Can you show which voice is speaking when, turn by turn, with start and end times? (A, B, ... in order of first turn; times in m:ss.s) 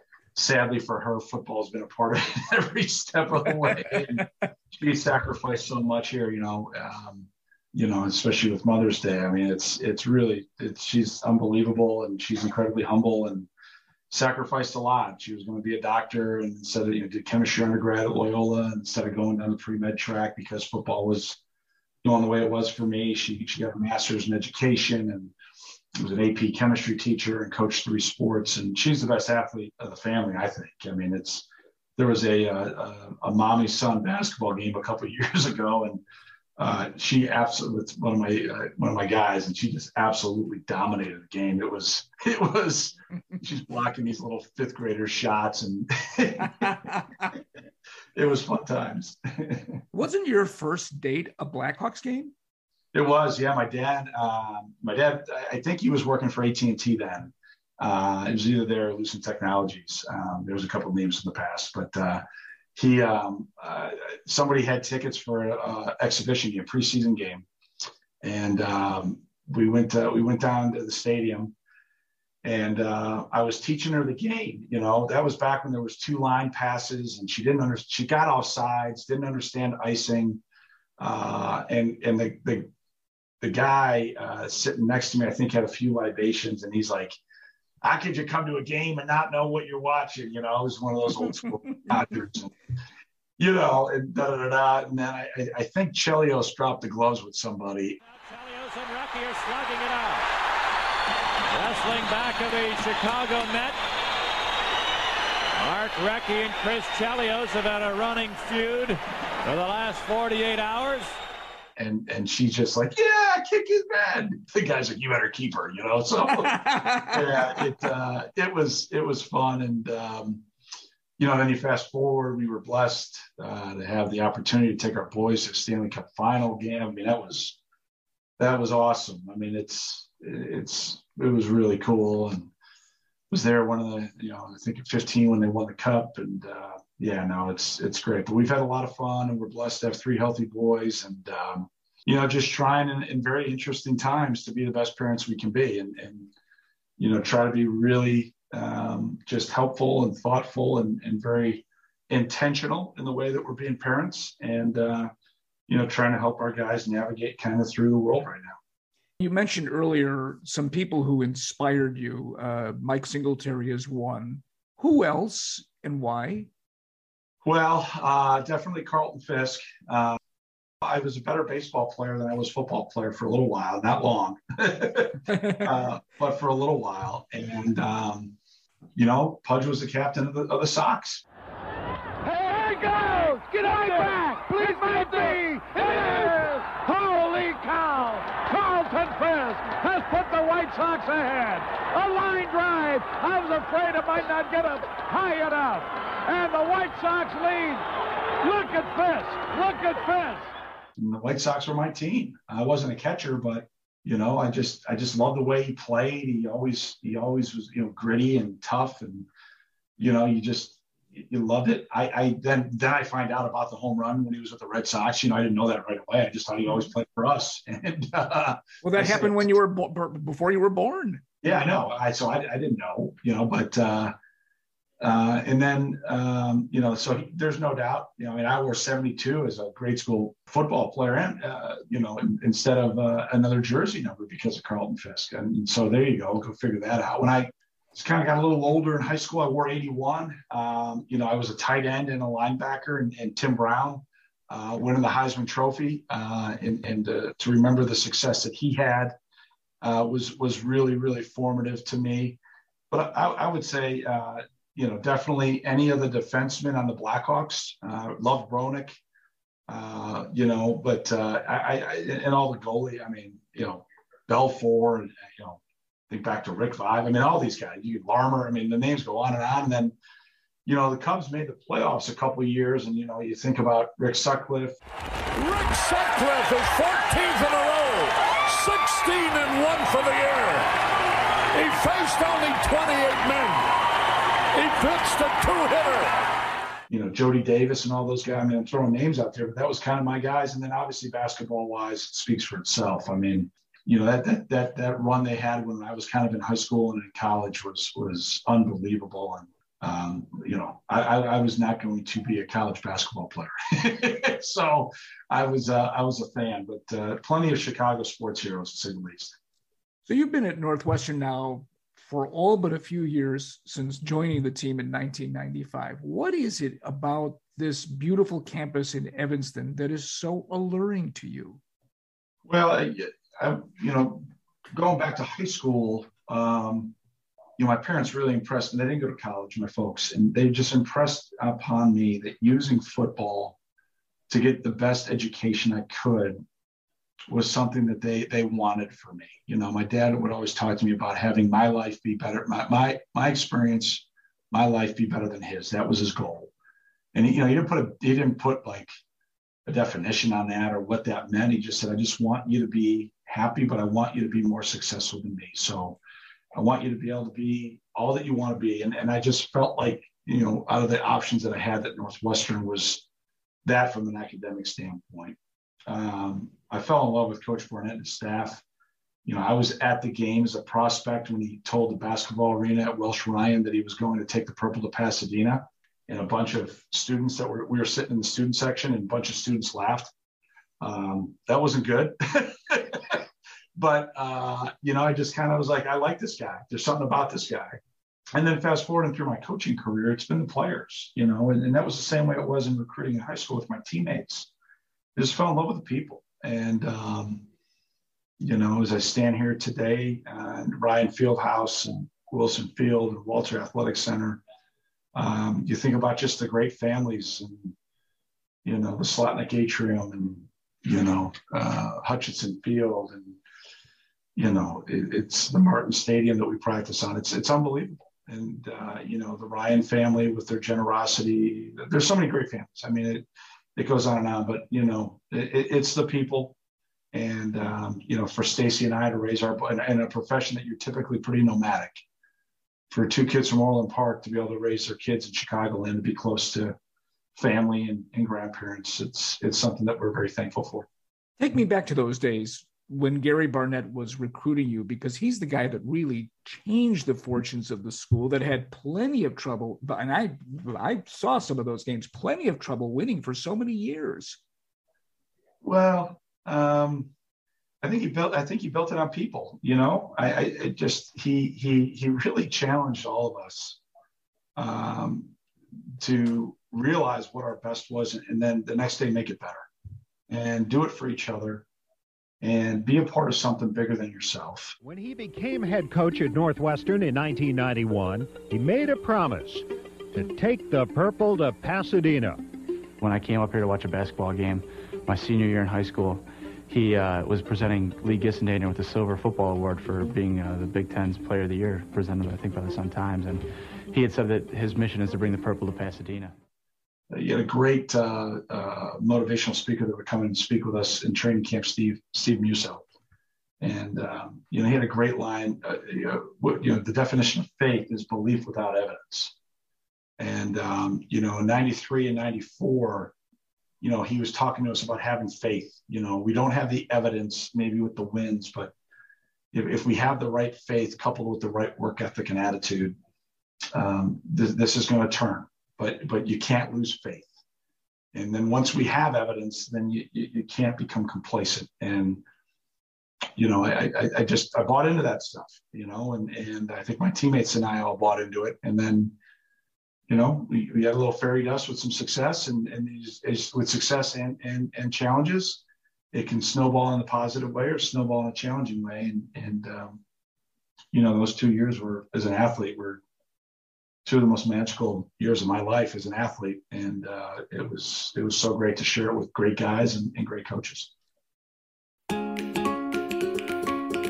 0:00.3-0:13.5 A
0:03.7-0:04.2 B
0:14.1-0:21.4 A
0:22.0-0:25.3 A
0:26.0-0:31.4 A
0:32.0-0:36.0 A
0:36.6-0:46.7 A
0:46.5-0:47.2 B
0:48.1-0:49.8 A
0:49.9-0:52.3 B
0:52.9-1:02.2 A
1:02.8-1:07.4 A
1:08.2-1:11.5 A
1:12.4-1:20.4 A
1:21.0-1:22.7 A
1:23.4-1:27.2 A
1:27.8-1:32.5 A
1:33.4-1:38.0 A
1:38.0-1:40.3 C
1:41.5-1:43.8 C
1:45.6-1:51.2 C
1:51.8-2:00.4 A
1:56.4-1:57.2 B
2:01.2-2:07.6 A
2:08.4-2:12.5 A
2:13.3-2:26.3 A
2:27.0-2:35.1 A
2:35.7-2:38.6 A
2:39.2-2:46.5 B
2:47.4-2:50.2 A
2:50.8-2:58.3 A
2:55.3-2:55.7 B
2:59.0-3:01.2 A
3:02.2-3:17.8 D
3:18.4-3:20.4 D
3:21.0-3:29.3 A
3:30.0-3:39.5 A
3:38.8-3:41.2 B
3:41.4-3:44.1 A
3:45.0-4:09.1 A
4:09.8-4:12.4 A
4:12.9-4:19.0 A
4:19.7-4:25.6 A
4:26.1-4:29.9 A
4:30.6-4:34.8 A
4:35.3-4:40.7 E
4:41.5-4:43.7 E
4:44.5-4:46.1 E
4:46.9-5:09.4 A
5:10.1-5:21.6 B
5:22.5-5:26.9 A
5:27.6-5:33.6 A
5:34.3-5:36.4 A
5:37.3-5:46.5 A
5:47.1-5:48.9 A
5:49.6-5:56.0 A
5:56.5-6:03.0 A
6:03.6-6:08.6 A
6:09.2-6:20.1 A
6:20.8-6:23.2 A
6:23.8-6:27.8 A
6:28.3-6:34.5 A
6:35.2-6:37.4 A
6:38.4-6:44.4 A
6:45.1-6:47.7 A
6:48.6-6:53.4 A
6:54.4-7:03.2 A
7:03.8-7:06.5 A
7:07.1-7:12.0 A
7:12.9-7:16.8 A
7:17.4-7:20.9 A
7:21.4-7:34.4 B
7:35.6-7:37.1 A
7:37.8-7:43.8 A
7:44.6-7:45.3 A
7:46.0-7:49.6 A
7:50.3-7:51.6 A
7:52.4-7:54.8 A
7:54.8-8:02.4 F
8:03.0-8:16.3 G
8:17.1-8:22.8 A
8:23.6-8:29.3 A
8:30.2-8:33.1 A
8:33.8-8:38.7 A
8:39.5-8:42.9 A
8:43.7-8:47.3 A
8:48.1-8:52.2 A
8:53.4-8:59.1 A
9:00.1-9:05.6 A
9:06.1-9:10.0 A
9:10.9-9:13.0 A
9:14.0-9:20.9 A